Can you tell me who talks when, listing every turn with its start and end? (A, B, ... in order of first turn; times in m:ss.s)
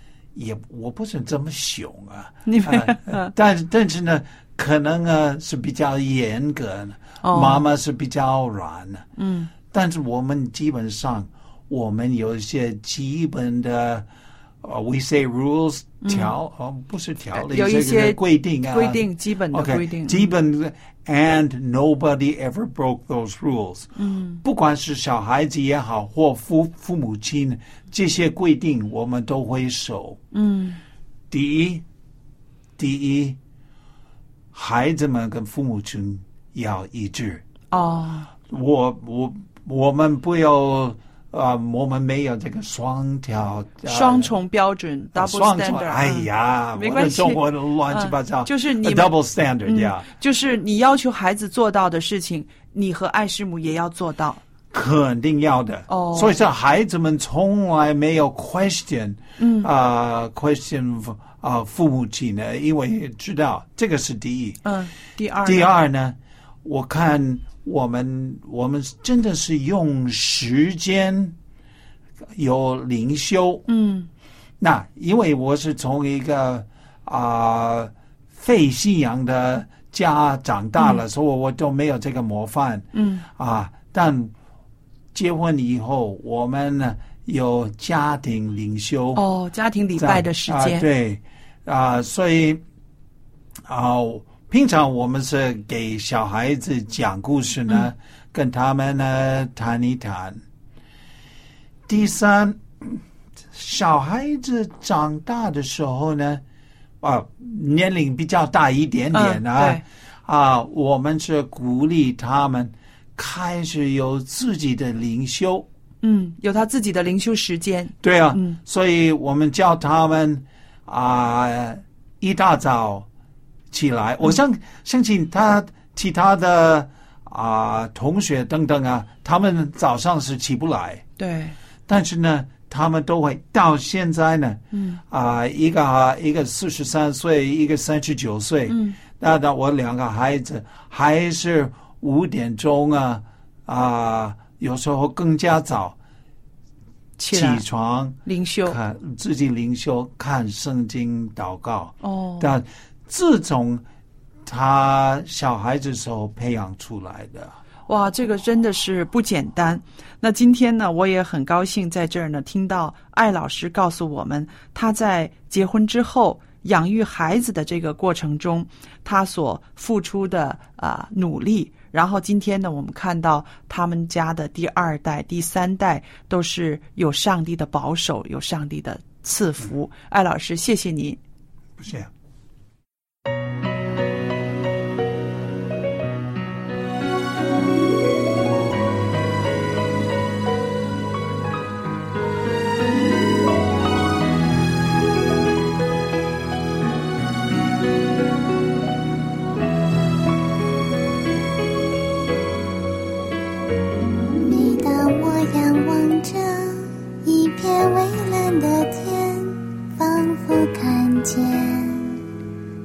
0:00.4-0:09.1 A
0:02.5-0:03.3 B
0:07.2-0:07.7 B
0:09.2-0:09.5 B
0:09.7-0:14.1 A
0:14.6-0:23.9 A
0:16.0-0:16.4 B
0:17.3-0:20.3 B
0:24.0-0:24.4 B
0:24.4-0:30.2 A
0:30.3-0:30.8 B
0:31.3-0:31.8 A
0:32.8-0:33.4 A
0:34.5-0:37.4 A
0:37.7-0:38.3 B
0:38.5-0:44.3 A
0:43.8-0:49.1 B
0:45.1-0:50.1 A
0:49.7-0:54.4 B
0:54.7-1:04.6 A
0:55.9-0:56.4 B
0:59.4-0:59.7 B
1:04.6-1:05.7 B
1:05.4-1:11.4 A
1:12.3-1:13.7 A
1:13.7-1:14.1 B
1:14.6-1:24.3 A
1:22.9-1:23.3 B
1:25.1-1:29.2 A
1:29.2-1:30.9 B
1:30.0-1:32.6 A
1:33.7-1:40.4 A
1:41.9-1:43.0 A
1:43.5-1:46.4 A
1:47.0-1:55.7 A
1:49.1-1:49.8 B
1:56.0-1:58.6 B
1:58.0-2:03.1 A
2:03.7-2:11.0 A
2:11.2-2:11.6 B
2:11.9-2:26.0 A
2:14.7-2:15.0 B
2:18.7-2:19.0 B
2:27.2-2:27.6 B
2:27.3-2:33.8 A
2:28.2-2:28.8 B
2:32.0-2:32.6 B
2:34.5-2:37.6 A
2:37.9-3:01.2 B
3:01.8-3:02.1 A
3:24.3-3:32.2 C